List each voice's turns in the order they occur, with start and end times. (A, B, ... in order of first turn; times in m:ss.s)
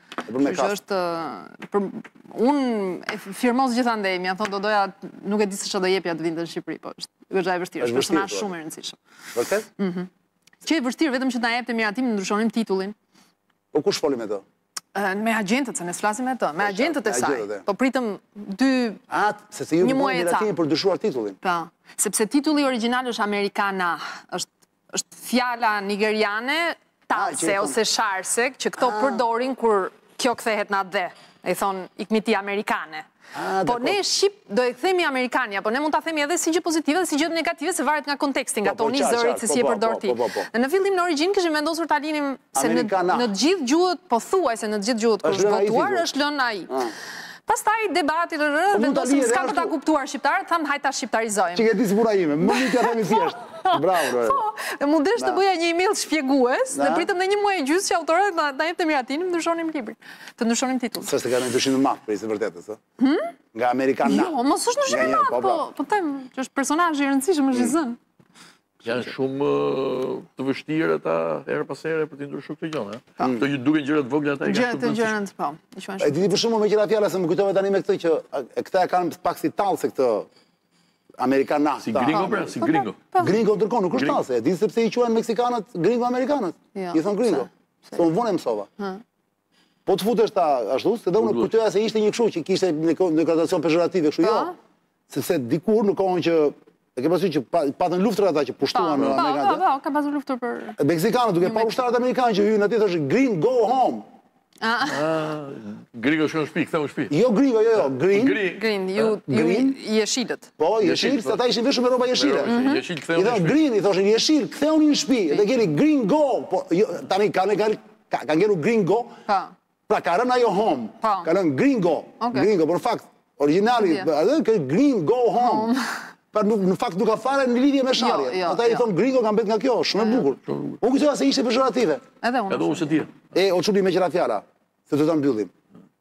0:00.2-0:00.8 A
0:00.4-0:09.0 B
0:07.8-0:08.5 A
0:09.3-0:09.7 A
0:09.8-0:10.1 B
0:10.6-0:12.9 B
0:13.7-0:14.4 A
0:14.9-0:19.0 B
0:16.6-0:17.6 A
0:19.1-0:21.4 A
0:19.8-0:20.5 B
0:21.4-0:33.1 B
0:27.1-0:27.8 A
0:28.8-0:29.2 A
0:33.3-0:34.0 A
0:33.6-0:46.9 B
0:38.6-0:40.5 A
0:42.5-0:43.3 A
0:45.2-0:46.1 A
0:47.5-0:51.7 B
0:48.7-0:49.7 A
0:51.5-0:54.4 A
0:52.4-1:01.1 B
0:55.2-0:55.4 A
0:56.7-0:57.1 A
1:01.0-1:02.8 A
1:03.0-1:03.3 B
1:03.5-1:05.6 A
1:04.0-1:08.0 B
1:08.8-1:15.1 C
1:13.2-1:13.4 A
1:14.4-1:16.3 B
1:16.0-1:20.3 A
1:21.2-1:22.7 A
1:21.8-1:23.1 C
1:22.6-1:23.4 B
1:23.2-1:28.7 A
1:23.9-1:24.2 C
1:26.7-1:28.1 B
1:29.8-1:34.5 A
1:31.2-1:31.5 C
1:34.2-1:34.5 B
1:35.1-1:39.6 A
1:38.7-1:40.8 B
1:40.8-1:44.0 A
1:41.4-1:41.8 B
1:44.6-1:45.1 B
1:44.9-1:47.1 C
1:47.1-1:48.5 A
1:47.8-1:49.2 C
1:48.4-1:50.5 B
1:49.2-1:49.8 A
1:50.6-1:52.6 A
1:50.8-1:51.4 C
1:52.1-1:53.6 C
1:52.5-1:52.8 B
1:53.1-1:59.2 A
1:59.2-1:59.5 B
1:59.9-2:05.7 A
2:01.0-2:01.3 B
2:02.2-2:02.5 B
2:03.8-2:04.1 B
2:05.4-2:05.9 B
2:06.3-2:12.0 A
2:08.0-2:08.9 B
2:10.4-2:10.8 C
2:12.2-2:13.0 B
2:12.5-2:13.1 C
2:13.3-2:15.5 A